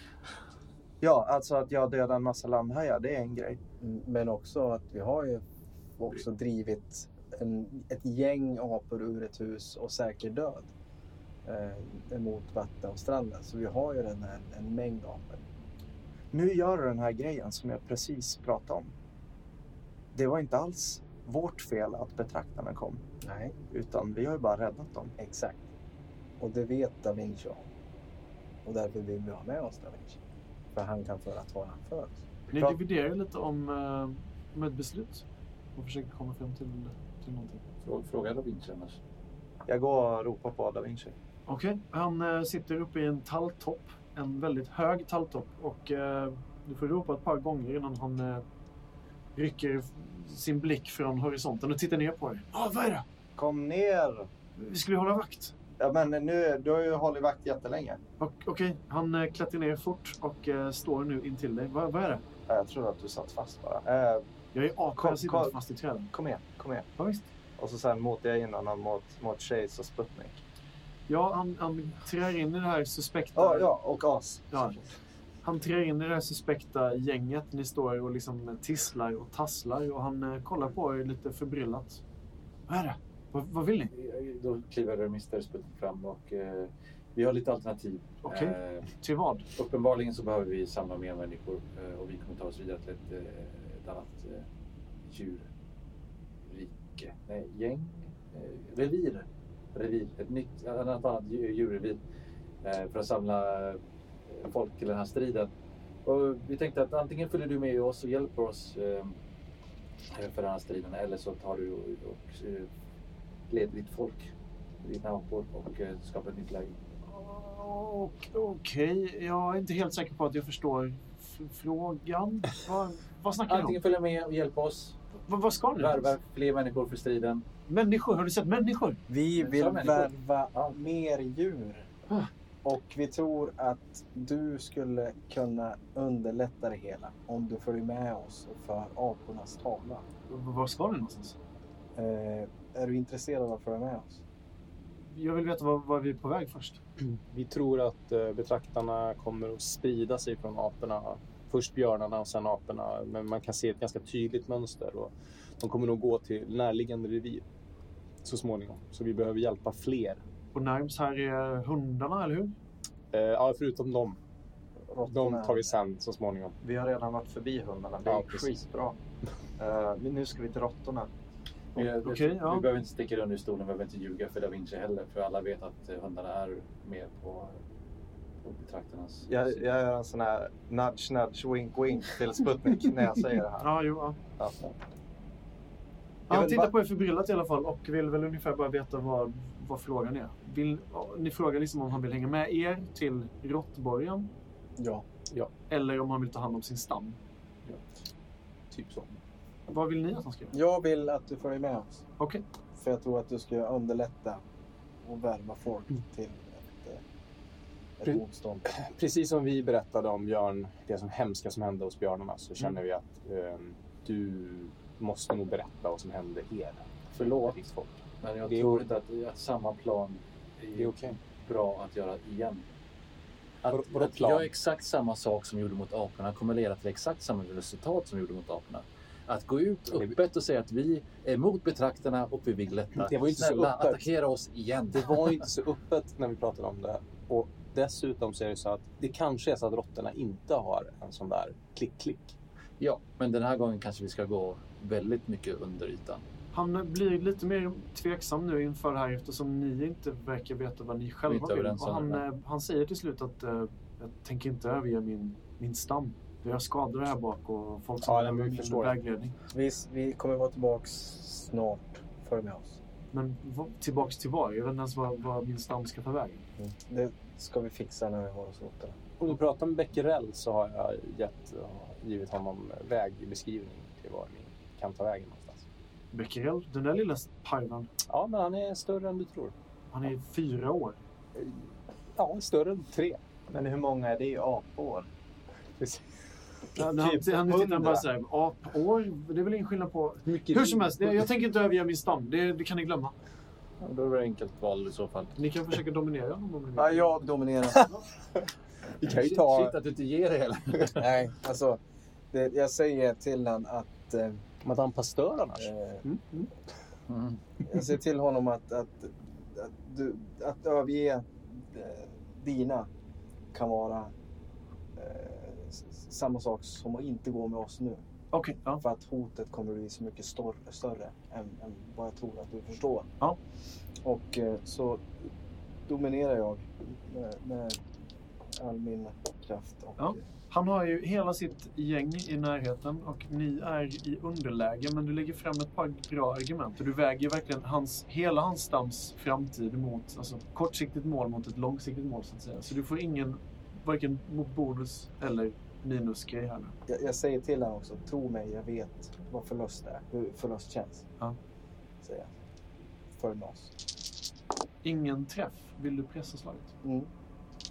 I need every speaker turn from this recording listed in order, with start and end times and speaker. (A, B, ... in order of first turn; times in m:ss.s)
0:01.0-0:03.6 A
0:03.8-0:05.4 B
0:06.0-0:10.7 B
0:11.4-0:15.4 B
0:16.3-0:18.9 A
0:20.1-0:23.0 A
0:23.2-0:23.6 B
0:23.7-0:25.1 A
0:25.2-0:25.6 B
0:26.4-0:27.6 B
0:28.6-0:30.2 B
0:30.7-0:32.2 B
0:32.5-0:37.6 C
0:37.8-0:39.0 D
0:39.7-0:41.1 A
0:41.5-0:48.4 C
0:49.3-0:53.0 C
0:53.4-0:54.3 A
0:54.6-0:55.5 C
0:55.8-0:58.0 A
0:58.2-1:02.2 C
1:02.5-1:04.3 A
1:04.5-1:06.1 C
1:05.0-1:05.6 A
1:06.1-1:06.9 A
1:07.0-1:07.2 C
1:07.6-1:10.4 A
1:11.1-1:13.7 C
1:13.4-1:14.9 A
1:14.5-1:14.8 C
1:15.4-1:22.0 C
1:22.7-1:23.9 C
1:23.9-1:28.9 D
1:28.2-1:29.4 C
1:29.5-1:34.4 D
1:35.0-1:35.5 D
1:36.4-1:42.0 D
1:42.6-1:45.5 D
1:46.0-1:49.2 D
1:50.1-1:52.7 D
1:53.5-1:56.8 D
1:57.1-2:03.8 C
2:03.5-2:05.0 D
2:05.3-2:06.2 C
2:05.8-2:07.4 D
2:07.7-2:09.0 C
2:09.1-2:11.9 B
2:09.4-2:10.7 D
2:12.6-2:20.0 B
2:20.3-2:21.4 C
2:22.0-2:24.2 B
2:25.1-2:26.8 C
2:27.0-2:37.4 E
2:38.2-2:40.2 E
2:40.5-2:42.5 C
2:43.1-2:44.2 E
2:44.9-2:45.7 B
2:45.0-2:46.6 E
2:46.6-2:49.0 A
2:48.0-2:48.5 E
2:49.6-2:51.1 A
2:51.7-2:57.6 D
2:52.0-2:52.6 C
2:58.4-2:59.6 D
2:59.3-3:03.7 A
3:03.6-3:04.2 C
3:04.4-3:04.7 A
3:06.3-3:14.3 C
3:06.3-3:06.6 A
3:14.8-3:15.0 B
3:15.7-3:17.2 C
3:18.7-3:19.2 E
3:19.7-3:20.5 C
3:20.5-3:22.0 B
3:22.8-3:24.4 B
3:25.0-3:27.0 B
3:28.0-3:28.7 B
3:28.0-3:38.9 E
3:37.2-3:37.6 D
3:38.2-3:42.6 D
3:40.8-3:41.2 E
3:43.6-3:55.4 D
3:43.7-3:44.5 E
3:49.9-3:50.2 E
3:52.9-3:54.0 E
3:54.9-4:02.3 E
4:02.8-4:06.2 D
4:06.5-4:19.3 C
4:11.3-4:12.2 D
4:18.0-4:19.0 E
4:19.5-4:22.8 B
4:23.1-4:26.4 C
4:26.6-4:29.0 B
4:29.2-4:35.6 E
4:36.1-4:37.9 C
4:38.1-4:39.5 E
4:39.9-4:41.0 C
4:42.1-4:43.2 E
4:43.5-4:45.1 A
4:45.8-4:46.1 E
4:46.8-4:53.1 C
4:46.8-4:47.9 E
4:50.2-4:51.3 E
4:53.8-4:55.3 D
4:55.4-4:57.2 C
4:56.8-4:57.9 B
4:59.0-4:59.8 E
4:59.0-5:01.1 D
5:01.0-5:01.8 B
5:02.3-5:04.4 B
5:04.6-5:05.7 E
5:05.6-5:06.0 B
5:06.1-5:06.5 C
5:07.1-5:07.4 D
5:07.6-5:12.9 B
5:13.5-5:14.1 B
5:15.0-5:18.0 B
5:18.3-5:18.8 C
5:18.8-5:23.1 B
5:24.0-5:25.3 B
5:25.9-5:27.9 B
5:28.5-5:30.2 B
5:30.0-5:46.7 C
5:46.9-5:51.0 B
5:52.0-5:52.3 B
5:53.1-5:53.7 B
5:54.8-5:56.7 C
5:56.8-5:57.1 B